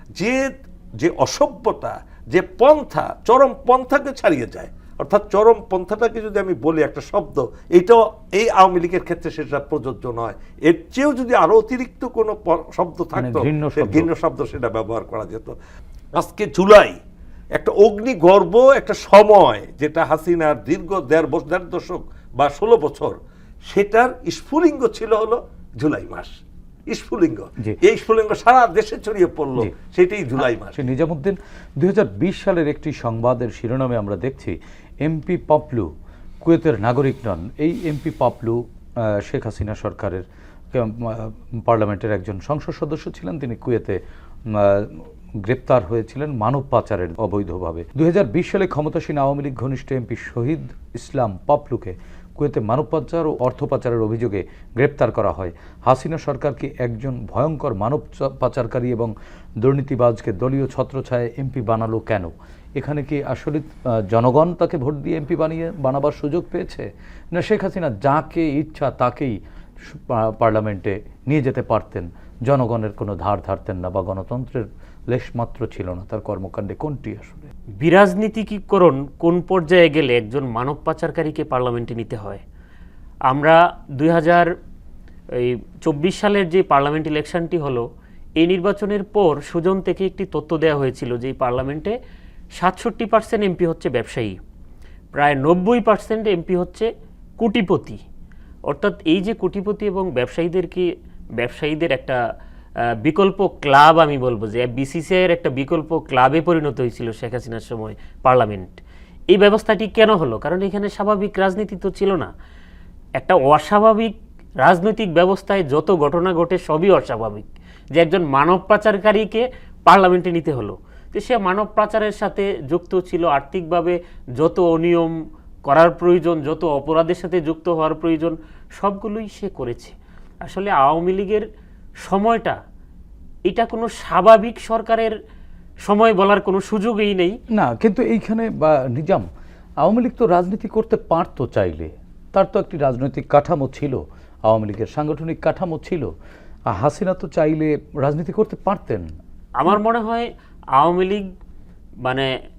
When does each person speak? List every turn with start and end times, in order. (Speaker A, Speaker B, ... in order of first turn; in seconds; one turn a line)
Speaker A: 0.2-0.5
Speaker A: 1.0-15.5
Speaker B: 13.2-14.1
Speaker A: 16.1-16.9
Speaker A: 17.5-23.2
Speaker A: 23.7-26.4
Speaker A: 26.9-30.8
Speaker B: 30.4-35.9
Speaker B: 36.4-77.5
Speaker C: 77.8-82.4
Speaker C: 83.3-84.5
Speaker C: 85.3-87.8
Speaker C: 88.4-92.0
Speaker C: 92.6-94.4
Speaker C: 95.1-98.0
Speaker C: 98.7-100.9
Speaker C: 101.4-102.2
Speaker C: 103.0-108.8
Speaker C: 109.3-112.3
Speaker C: 113.2-125.1
Speaker C: 125.6-131.4
Speaker C: 132.0-132.6
Speaker C: 133.5-135.1
Speaker C: 135.8-137.3
Speaker B: 137.5-139.3
Speaker B: 139.8-146.1
Speaker B: 146.7-149.1
Speaker C: 149.6-151.2
Speaker C: 152.0-152.3